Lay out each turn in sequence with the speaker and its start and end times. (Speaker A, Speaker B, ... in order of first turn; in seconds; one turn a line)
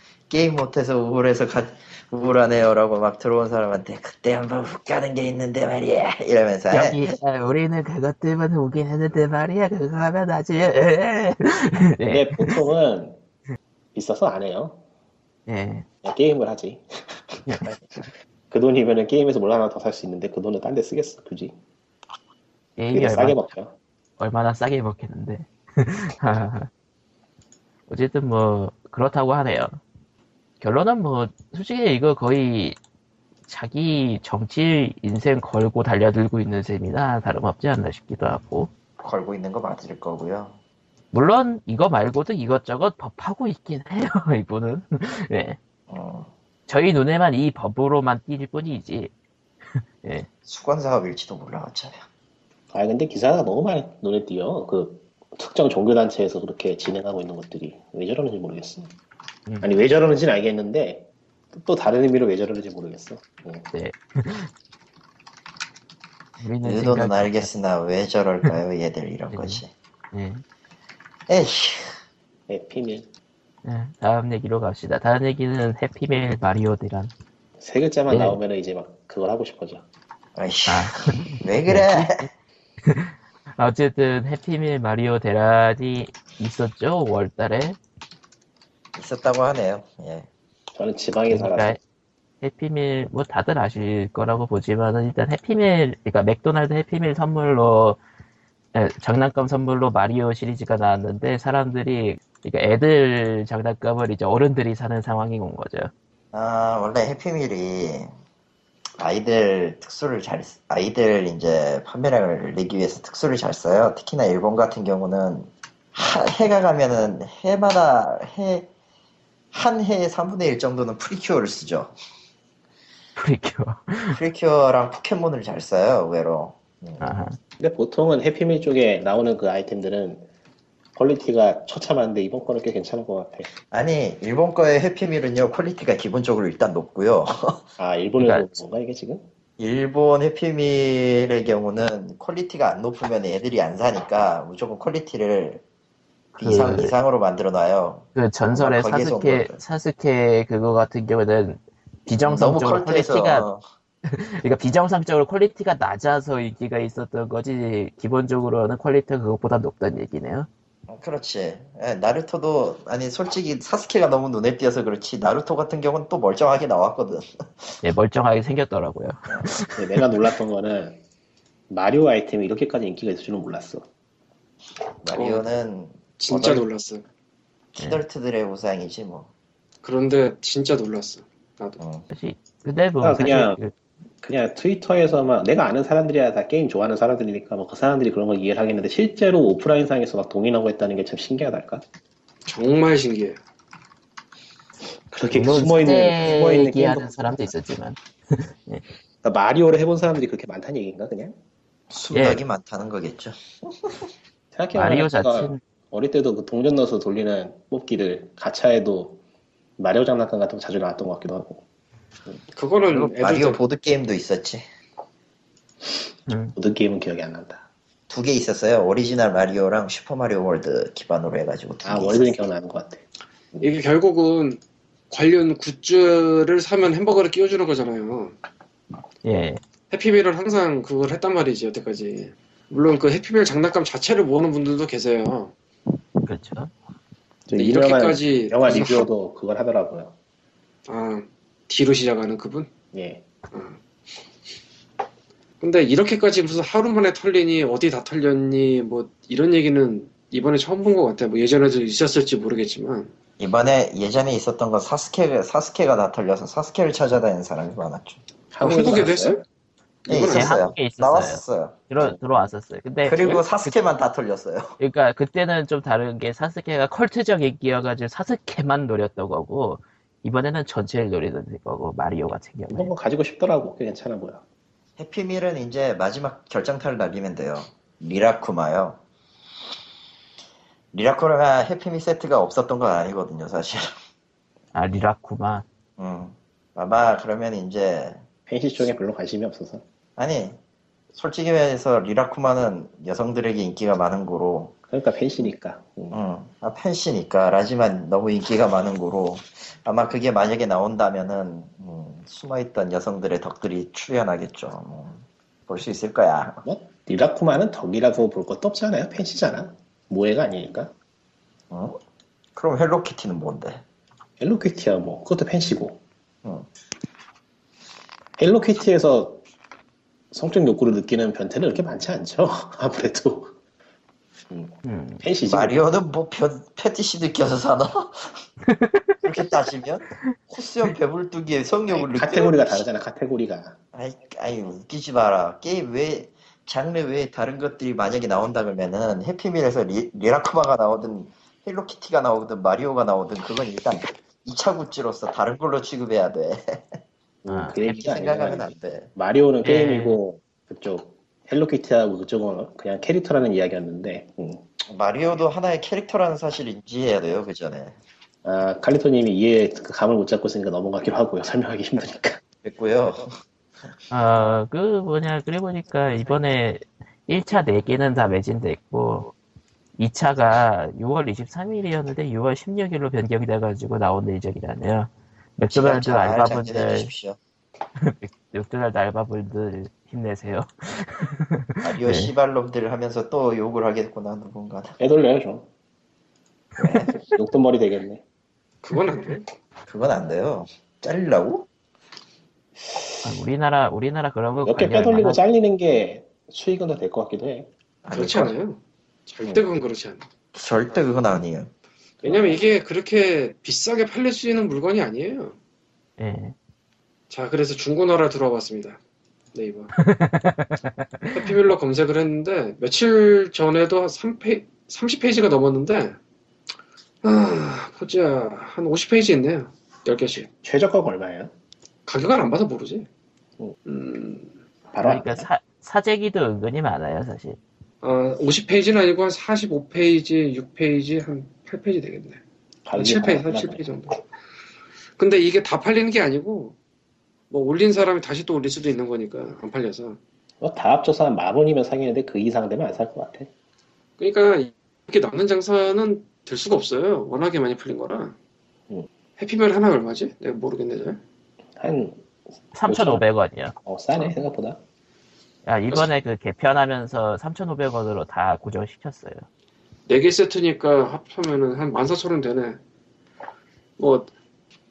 Speaker A: 0.3-7.1
Speaker B: 6.7-12.6
Speaker C: 12.1-13.2
Speaker C: 13.9-14.8
Speaker B: 15.5-15.9
Speaker C: 16.0-17.4
Speaker B: 17.5-17.8
Speaker C: 18.5-21.6
Speaker B: 22.8-23.5
Speaker C: 22.9-23.8
Speaker B: 24.2-26.7
Speaker B: 27.9-29.8
Speaker B: 30.6-32.8
Speaker B: 33.5-38.7
Speaker A: 39.0-40.6
Speaker B: 41.1-45.6
Speaker A: 45.9-46.3
Speaker B: 46.7-49.1
Speaker B: 49.8-50.3
Speaker A: 50.5-52.0
Speaker C: 52.7-58.9
Speaker C: 59.6-63.7
Speaker B: 63.7-64.5
Speaker B: 66.4-67.5
Speaker A: 66.6-69.7
Speaker B: 69.3-70.4
Speaker A: 71.3-72.0
Speaker C: 72.5-73.1
Speaker B: 73.7-77.1
Speaker C: 77.6-79.9
Speaker B: 78.1-78.4
Speaker A: 80.3-82.3
Speaker B: 80.7-82.3
Speaker B: 82.8-87.8
Speaker A: 89.0-90.3
Speaker C: 90.8-91.8
Speaker B: 91.3-91.8
Speaker B: 92.4-98.0
Speaker B: 98.7-105.9
Speaker A: 106.3-108.1
Speaker A: 109.0-118.7
Speaker A: 119.5-121.9
Speaker B: 123.2-124.2
Speaker A: 124.1-127.0
Speaker B: 127.0-127.4
Speaker C: 127.6-130.3
Speaker C: 130.9-133.5
Speaker A: 133.7-137.7
Speaker C: 137.8-139.3
Speaker B: 138.2-138.6
Speaker A: 139.6-145.6
Speaker A: 146.4-149.6
Speaker B: 146.4-146.9
Speaker B: 148.2-153.5
Speaker A: 152.2-153.6
Speaker B: 154.1-160.5
Speaker A: 160.9-167.7
Speaker B: 167.8-170.0
Speaker C: 169.8-171.0
Speaker C: 171.7-173.9
Speaker A: 175.0-176.7
Speaker D: 175.1-175.4
Speaker D: 176.2-177.0
Speaker A: 177.8-179.3
Speaker D: 179.8-181.8
Speaker A: 181.8-182.1
Speaker B: 182.1-183.7
Speaker C: 183.0-183.6
Speaker C: 184.2-191.8
Speaker D: 192.5-193.4
Speaker C: 195.1-197.5
Speaker B: 195.3-198.8
Speaker C: 199.2-201.4
Speaker A: 201.9-204.0
Speaker B: 202.1-202.4
Speaker C: 204.5-209.2
Speaker B: 204.8-205.6
Speaker C: 209.8-211.6
Speaker D: 212.5-213.6
Speaker A: 212.9-214.6
Speaker B: 216.3-216.6
Speaker C: 216.6-217.7
Speaker A: 218.1-222.4
Speaker C: 221.8-223.7
Speaker D: 223.6-228.4
Speaker B: 229.2-229.6
Speaker D: 229.9-235.5
Speaker B: 236.2-236.7
Speaker C: 237.5-240.1
Speaker D: 237.5-239.1
Speaker D: 240.9-242.7
Speaker C: 242.9-243.2
Speaker D: 243.5-243.8
Speaker D: 245.6-253.1
Speaker A: 253.4-258.2
Speaker C: 258.5-259.4
Speaker D: 258.6-259.4
Speaker D: 260.1-260.6
Speaker A: 260.1-262.2
Speaker B: 260.3-263.8
Speaker A: 263.1-264.8
Speaker B: 264.8-272.9
Speaker C: 272.7-274.4
Speaker A: 275.0-279.0
Speaker A: 280.9-283.9
Speaker B: 284.7-285.7
Speaker A: 286.0-288.2
Speaker C: 288.5-289.8
Speaker A: 290.2-290.6
Speaker A: 291.1-294.8
Speaker C: 294.9-296.2
Speaker A: 296.1-306.6
Speaker C: 306.6-310.9
Speaker A: 311.7-312.0
Speaker A: 312.6-313.8
Speaker C: 314.4-316.0
Speaker C: 318.4-319.4
Speaker C: 320.3-323.5
Speaker C: 324.5-325.8
Speaker B: 324.9-325.2
Speaker A: 325.4-328.4
Speaker B: 328.7-329.2
Speaker A: 329.2-332.9
Speaker C: 331.9-333.8
Speaker A: 333.9-347.0
Speaker C: 347.4-354.6
Speaker B: 347.5-348.0
Speaker A: 347.8-349.1
Speaker B: 349.6-350.2
Speaker A: 354.9-358.0
Speaker C: 358.4-362.4
Speaker A: 362.6-363.3
Speaker B: 364.1-369.3
Speaker B: 370.0-377.1
Speaker A: 375.7-377.4
Speaker B: 378.0-382.3
Speaker A: 381.8-385.0
Speaker C: 385.0-385.7
Speaker A: 386.8-387.2
Speaker C: 387.1-388.2
Speaker D: 388.8-389.5
Speaker A: 389.9-391.7
Speaker B: 393.2-395.4
Speaker C: 394.6-397.7
Speaker A: 398.0-398.6
Speaker D: 398.1-400.2
Speaker A: 400.5-401.7
Speaker C: 402.2-402.6
Speaker D: 402.2-405.6
Speaker B: 406.2-406.6
Speaker D: 407.3-409.0
Speaker D: 409.5-409.9
Speaker B: 410.0-411.5
Speaker D: 411.3-416.2
Speaker D: 417.2-420.5
Speaker C: 420.6-421.5
Speaker D: 422.1-423.1
Speaker D: 423.9-424.5
Speaker C: 424.9-425.5
Speaker B: 425.0-427.6
Speaker D: 428.0-432.4
Speaker C: 432.9-433.9
Speaker D: 432.9-434.2
Speaker D: 435.2-436.8
Speaker D: 437.5-440.2
Speaker C: 440.6-443.5
Speaker D: 444.2-448.4
Speaker D: 449.4-451.2
Speaker C: 451.8-452.3
Speaker B: 452.7-454.3
Speaker C: 452.9-453.2
Speaker C: 453.9-454.8
Speaker B: 455.7-459.4
Speaker D: 460.1-462.8
Speaker D: 464.0-464.3